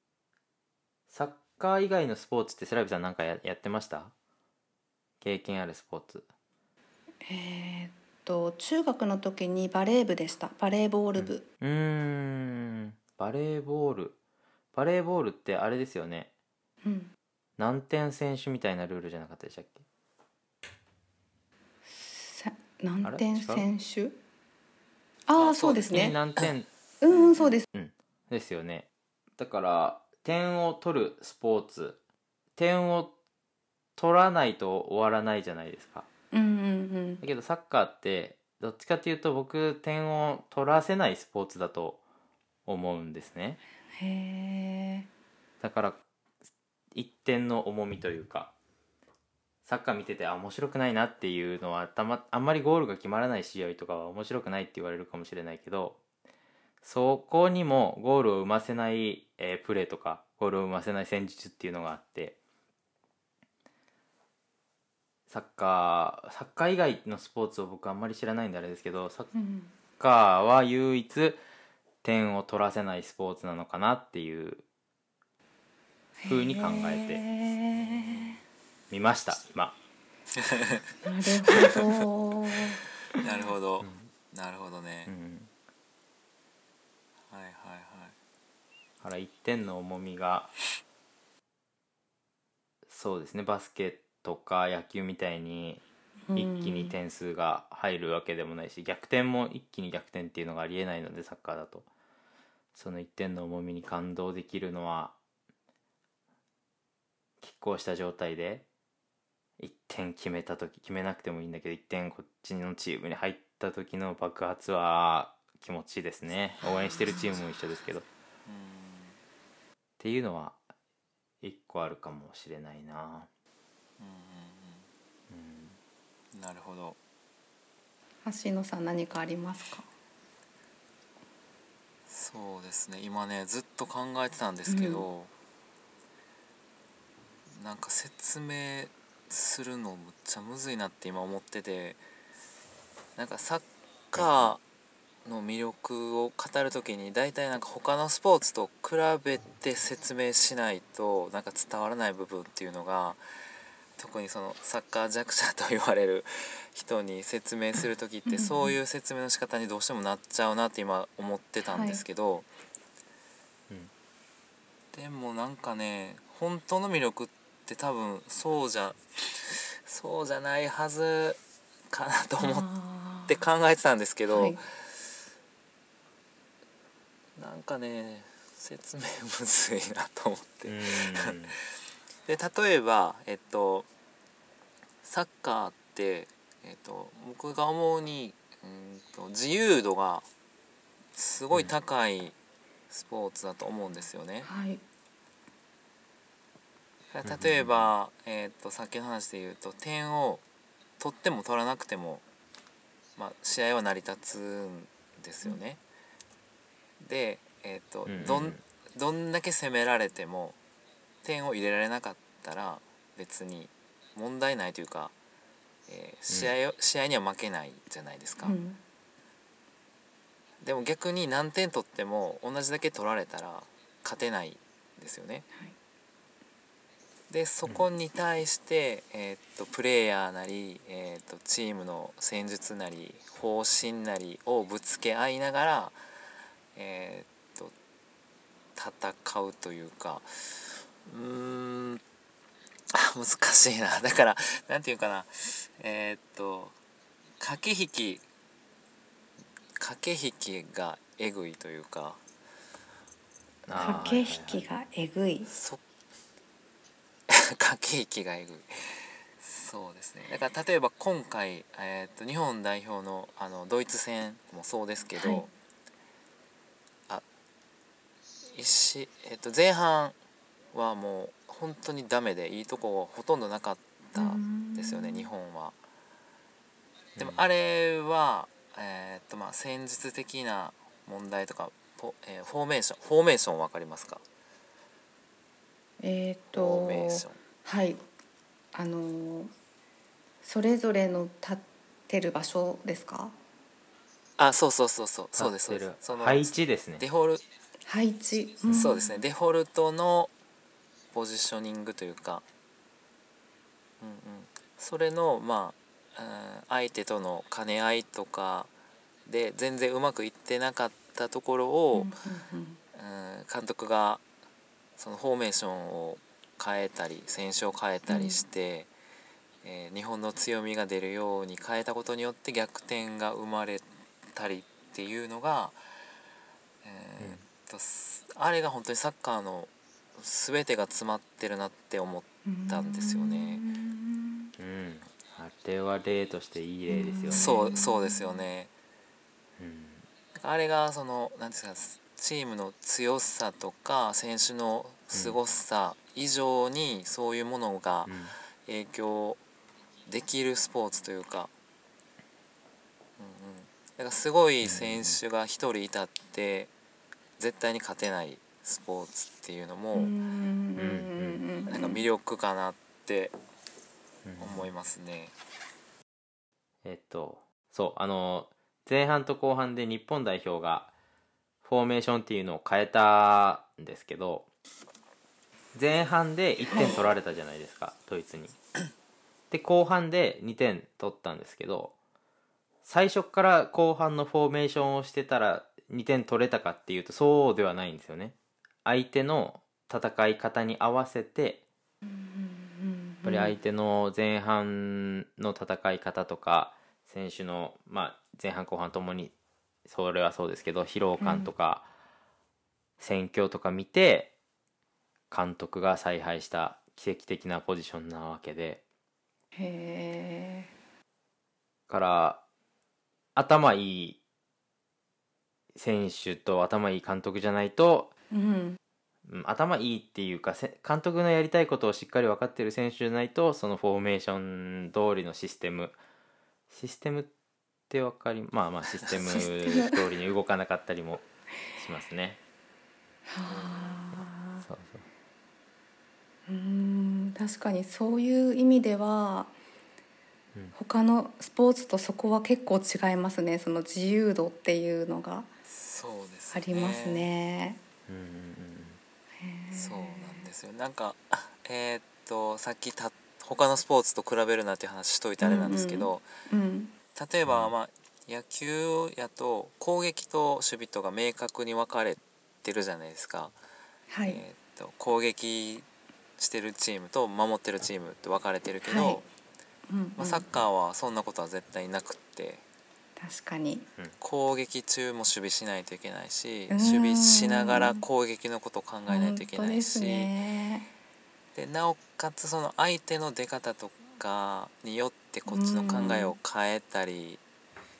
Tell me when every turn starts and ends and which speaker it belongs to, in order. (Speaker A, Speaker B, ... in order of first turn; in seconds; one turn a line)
Speaker A: 1.1-4.1
Speaker A: 5.2-6.2
Speaker B: 7.2-11.4
Speaker A: 11.2-14.2
Speaker A: 14.7-16.3
Speaker B: 16.8-17.1
Speaker A: 17.6-19.8
Speaker B: 21.9-24.2
Speaker A: 23.0-23.6
Speaker B: 25.3-26.2
Speaker C: 25.4-26.5
Speaker A: 25.9-26.7
Speaker B: 27.0-27.7
Speaker C: 27.1-27.5
Speaker A: 27.7-28.9
Speaker A: 29.4-32.0
Speaker A: 32.6-33.1
Speaker A: 34.0-36.1
Speaker B: 36.3-37.2
Speaker A: 37.2-42.0
Speaker A: 42.6-43.6
Speaker B: 44.0-45.1
Speaker A: 45.6-46.0
Speaker A: 46.9-48.5
Speaker A: 49.6-56.0
Speaker A: 56.8-62.4
Speaker A: 65.3-69.3
Speaker B: 69.3-69.7
Speaker A: 70.0-71.4
Speaker A: 72.0-74.6
Speaker B: 76.2-78.4
Speaker A: 76.3-77.2
Speaker C: 77.8-78.4
Speaker A: 78.9-79.8
Speaker C: 80.4-80.8
Speaker B: 81.0-83.4
Speaker C: 83.1-85.1
Speaker A: 83.8-84.1
Speaker A: 85.1-85.5
Speaker C: 87.3-88.1
Speaker A: 89.0-90.5
Speaker A: 92.9-95.8
Speaker B: 96.3-97.0
Speaker A: 96.3-101.9
Speaker A: 102.8-105.2
Speaker A: 107.4-108.7
Speaker A: 109.6-118.1
Speaker C: 118.5-119.2
Speaker A: 120.0-120.6
Speaker A: 121.4-123.3
Speaker C: 124.0-124.9
Speaker A: 125.3-125.8
Speaker C: 126.3-127.0
Speaker B: 128.2-129.9
Speaker C: 132.1-135.3
Speaker B: 134.7-135.1
Speaker C: 137.5-142.0
Speaker C: 143.2-144.6
Speaker A: 144.1-144.5
Speaker C: 145.2-153.2
Speaker C: 154.0-162.5
Speaker B: 158.2-158.8
Speaker B: 161.6-162.0
Speaker C: 164.9-172.7
Speaker B: 172.4-173.4
Speaker C: 173.3-174.6
Speaker B: 174.3-174.6
Speaker C: 177.4-181.6
Speaker A: 180.7-181.6
Speaker C: 182.2-183.9
Speaker C: 185.0-190.3
Speaker C: 191.1-192.4
Speaker C: 192.9-194.5
Speaker B: 194.4-194.8
Speaker C: 197.1-200.4
Speaker A: 197.2-197.9
Speaker C: 201.0-202.2
Speaker C: 203.2-205.8
Speaker C: 207.0-210.6
Speaker A: 208.1-208.6
Speaker C: 211.2-215.1
Speaker C: 215.9-218.6
Speaker A: 216.3-216.6
Speaker B: 218.4-218.8
Speaker C: 220.6-225.5
Speaker C: 227.3-236.0
Speaker C: 236.8-237.7
Speaker C: 238.8-242.0
Speaker C: 242.9-246.8
Speaker C: 247.4-248.2
Speaker C: 249.8-252.2
Speaker A: 253.7-254.7
Speaker B: 253.7-255.5
Speaker C: 255.5-255.8
Speaker C: 257.3-265.5
Speaker B: 265.2-265.4
Speaker C: 268.5-270.1
Speaker C: 270.7-275.8
Speaker B: 274.1-275.3
Speaker A: 277.2-277.4
Speaker C: 277.2-284.2
Speaker B: 286.0-288.0
Speaker C: 286.5-287.4
Speaker B: 288.7-289.5
Speaker B: 290.4-293.4
Speaker C: 294.4-297.4
Speaker A: 295.3-297.0
Speaker B: 297.9-299.1
Speaker C: 298.7-300.3
Speaker C: 301.1-302.4
Speaker C: 304.0-308.7
Speaker C: 309.2-312.1
Speaker B: 311.9-312.8
Speaker C: 312.9-314.2
Speaker C: 315.0-318.9
Speaker B: 318.1-318.4
Speaker C: 319.6-325.8
Speaker C: 326.8-333.6
Speaker B: 332.5-334.5
Speaker A: 334.6-337.6
Speaker B: 336.9-338.5
Speaker C: 337.3-338.7
Speaker A: 339.6-340.0
Speaker C: 340.4-349.4
Speaker A: 345.1-345.4
Speaker A: 348.1-348.3
Speaker C: 350.1-351.5
Speaker C: 353.2-356.7
Speaker A: 354.6-355.2
Speaker C: 357.4-360.1
Speaker B: 359.9-362.0
Speaker A: 360.8-361.4
Speaker C: 361.7-363.4
Speaker A: 364.2-364.7
Speaker C: 364.4-365.3
Speaker A: 366.8-370.9
Speaker A: 371.6-374.5
Speaker A: 375.7-378.5
Speaker B: 376.7-376.9
Speaker C: 376.7-377.2
Speaker A: 379.5-381.9
Speaker A: 382.8-391.6
Speaker B: 392.0-393.6
Speaker A: 393.2-399.3
Speaker A: 399.9-401.9
Speaker B: 401.2-401.5
Speaker A: 403.0-404.3
Speaker A: 405.3-408.8
Speaker B: 409.6-410.7
Speaker A: 411.9-412.4
Speaker A: 413.4-414.2
Speaker A: 415.7-418.1
Speaker B: 418.3-418.8
Speaker A: 419.2-426.0
Speaker A: 426.7-427.3
Speaker A: 427.9-431.2
Speaker B: 429.3-430.0
Speaker A: 431.8-432.4
Speaker B: 433.2-434.6
Speaker C: 433.4-434.1
Speaker A: 434.6-435.0
Speaker B: 436.5-439.5
Speaker B: 440.8-445.5
Speaker C: 445.6-447.3
Speaker B: 446.5-447.8
Speaker A: 448.1-449.0
Speaker B: 449.4-450.5
Speaker C: 449.7-456.2
Speaker B: 455.4-456.9
Speaker C: 457.1-463.6
Speaker A: 457.4-457.7
Speaker B: 464.1-464.4
Speaker C: 464.3-465.9
Speaker C: 466.4-469.3
Speaker B: 468.9-469.2
Speaker B: 469.9-470.4
Speaker C: 470.2-472.6
Speaker B: 473.2-473.9
Speaker C: 474.2-480.3
Speaker B: 476.7-478.0
Speaker B: 479.1-480.9
Speaker C: 481.5-487.4
Speaker B: 485.5-486.3